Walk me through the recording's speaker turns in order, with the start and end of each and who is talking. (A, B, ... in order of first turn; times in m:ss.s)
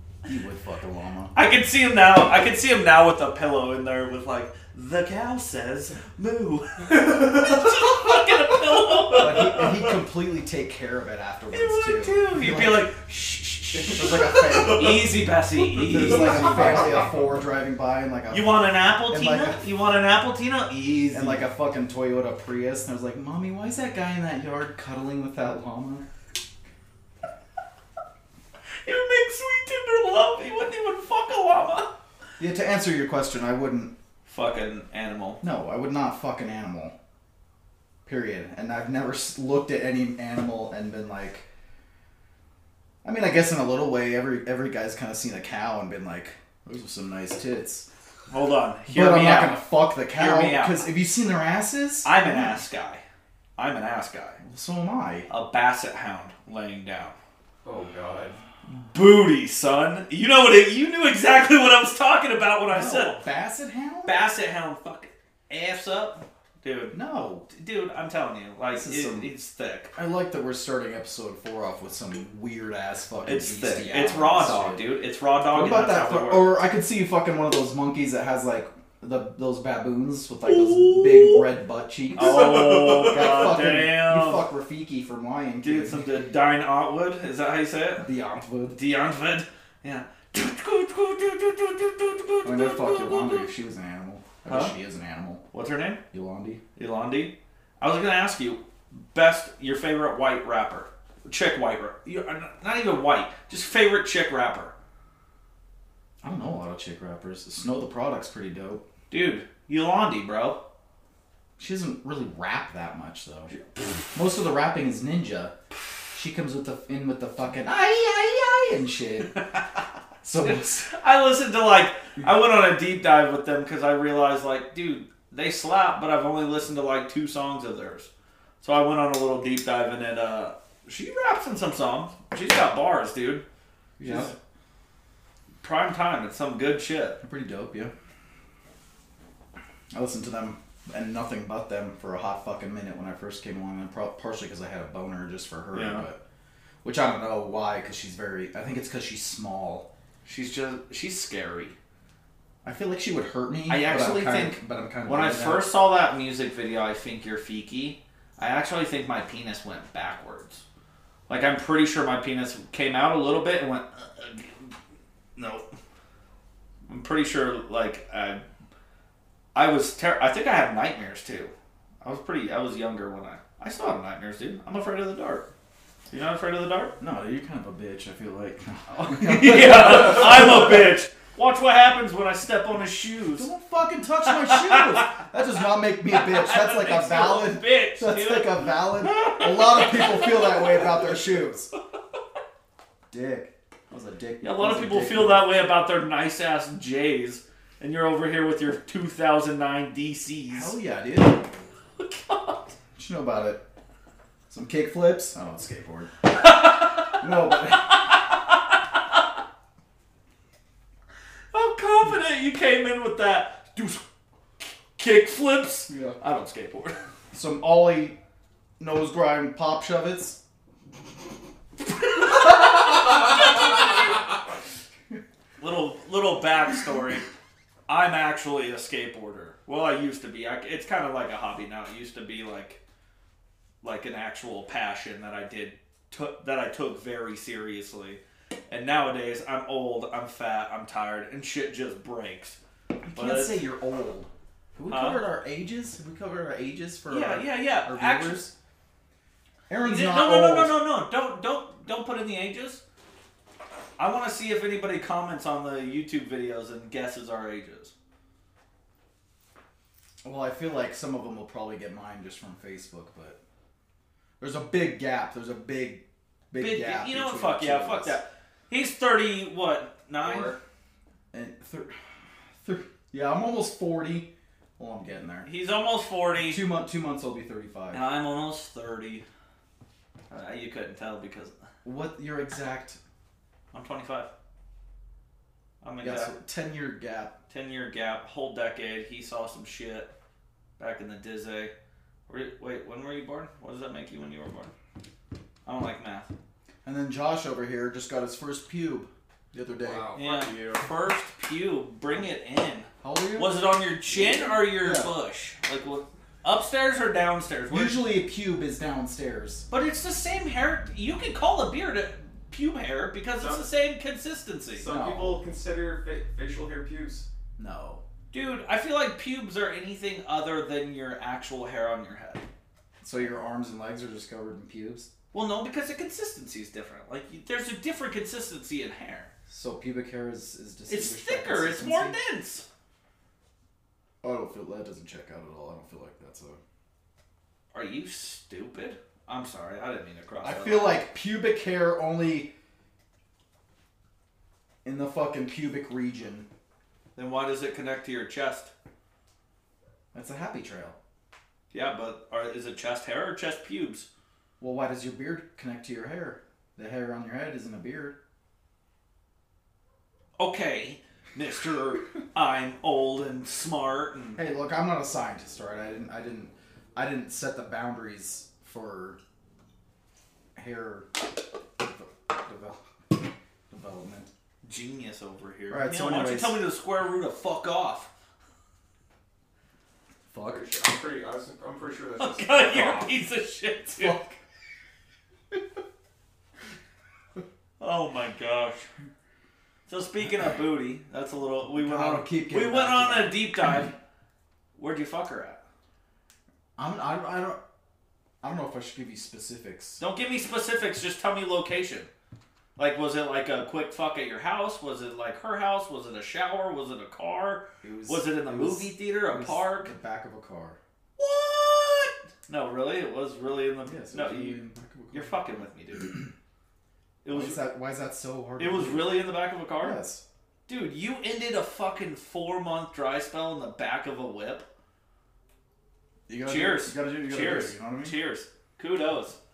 0:00.2-0:01.3 A
0:01.3-0:09.7 B
0:07.1-0:08.2 C
0:09.2-0:12.9 A
0:11.5-0:17.0 B
0:13.8-0:15.1 A
0:14.1-0:15.1 C
0:15.7-0:17.0 C
0:15.8-0:18.5 A
0:18.3-0:21.4 B
0:19.1-0:19.6 A
0:21.1-0:26.0 A
0:28.8-0:31.9 B
0:32.4-0:33.9 A
0:34.3-0:35.4 B
0:35.4-0:36.9 A
0:38.0-0:41.4 A
0:43.0-0:47.9 A
0:48.3-0:50.8 B
0:48.9-0:52.6 A
0:52.0-0:53.0 B
0:53.6-0:54.4 B
0:54.4-0:55.3 A
0:55.3-0:57.2 B
0:57.6-0:58.4 C
0:58.8-1:03.2 B
1:02.7-1:04.2 A
1:04.0-1:07.0 B
1:06.9-1:07.5 A
1:07.5-1:09.9 B
1:08.7-1:09.3 A
1:10.0-1:14.8 A
1:13.2-1:16.5 B
1:15.5-1:26.1 A
1:20.5-1:21.4 B
1:22.2-1:24.4 B
1:22.3-1:23.6 C
1:25.6-1:28.1 B
1:28.0-1:28.8 A
1:28.7-1:33.5 B
1:32.4-1:35.4 A
1:34.5-1:34.7 B
1:35.5-1:36.0 B
1:36.1-1:36.6 A
1:36.8-1:44.7 B
1:46.2-1:48.8 A
1:49.1-1:50.6 B
1:51.6-1:53.5 A
1:54.1-1:55.5 A
1:56.1-1:59.4 A
2:00.2-2:00.9 A
2:00.4-2:08.1 B
2:08.6-2:13.4 B
2:14.0-2:14.3 A
2:14.0-2:14.3 B
2:15.6-2:17.2 B
2:17.2-2:17.9 A
2:19.9-2:26.2 A
2:25.7-2:26.0 B
2:26.8-2:29.9 A
2:30.2-2:31.7 B
2:32.6-2:35.7 A
2:33.7-2:40.6 B
2:41.3-2:44.7 B
2:45.4-2:45.7 B
2:46.9-2:48.4 B
2:49.5-2:55.4 B
2:56.1-2:57.0 B
2:57.0-3:00.9 A
2:58.9-3:03.5 B
3:03.3-3:11.7 A
3:04.3-3:05.2 B
3:06.1-3:10.8 B
3:13.1-3:15.5 A
3:14.4-3:20.8 B
3:20.5-3:21.5 A
3:22.0-3:22.8 B
3:23.0-3:23.6 A
3:24.5-3:26.2 A
3:26.4-3:27.1 B
3:27.1-3:28.0 A
3:31.5-3:34.0 B
3:35.0-3:37.0 B
3:35.9-3:36.2 A
3:37.3-3:38.2 A
3:38.8-3:40.4 A
3:45.6-3:47.3 B
3:47.9-3:52.8 B
3:53.8-4:02.6 B
4:03.0-4:08.5 A
4:03.1-4:03.6 B
4:04.9-4:05.2 B
4:07.1-4:08.5 B
4:09.7-4:10.7 A
4:09.8-4:12.8 B
4:14.0-4:17.9 B
4:20.2-4:23.4 A
4:24.4-4:28.2 A
4:26.6-4:30.6 B
4:30.2-4:30.6 C
4:31.3-4:32.0 A
4:32.5-4:35.5 A
4:35.4-4:36.6 B
4:36.4-4:38.1 A
4:37.9-4:39.2 B
4:40.3-4:41.5 B
4:41.8-4:43.0 A
4:43.7-4:44.3 B
4:45.8-4:46.3 B
4:46.0-4:47.4 A
4:47.5-4:50.1 B
4:50.8-4:51.7 B
4:52.3-4:54.7 B
4:55.6-4:56.3 B
4:56.8-5:00.1 A
4:59.8-5:00.9 C
5:00.1-5:08.0 B
5:03.0-5:05.1 A
5:07.7-5:09.7 A
5:09.7-5:14.9 B
5:13.4-5:13.7 C
5:14.8-5:17.3 C
5:14.8-5:15.4 A
5:17.6-5:18.0 A
5:18.3-5:22.5 B
5:23.0-5:25.1 A
5:25.3-5:29.3 B
5:29.5-5:32.2 A
5:30.9-5:32.6 B
5:34.2-5:36.6 A
5:37.7-5:41.0 B
5:40.4-5:42.5 A
5:44.8-5:46.5 A
5:47.2-5:48.7 B
5:50.1-5:51.0 A
5:51.7-5:54.1 B
5:54.6-5:58.2 A
6:00.4-6:04.4 B
6:04.4-6:09.2 A
6:10.6-6:11.1 A
6:11.8-6:14.3 A
6:14.6-6:18.1 B
6:15.7-6:16.6 A
6:20.3-6:20.7 A
6:20.4-6:23.1 C
6:22.2-6:24.2 B
6:23.9-6:24.4 A
6:27.8-6:28.9 B
6:29.9-6:34.0 B
6:31.8-6:33.4 A
6:34.8-6:35.6 B
6:36.8-6:37.6 A
6:38.4-6:40.0 A
6:40.0-6:42.1 B
6:42.8-6:49.9 B
6:47.8-6:50.8 A
6:51.2-6:56.3 B
6:53.8-6:55.6 A
6:57.2-6:57.6 B
6:57.3-7:00.2 A
6:58.6-7:00.0 B
7:00.7-7:04.7 B
7:06.3-7:08.2 A
7:06.4-7:09.4 B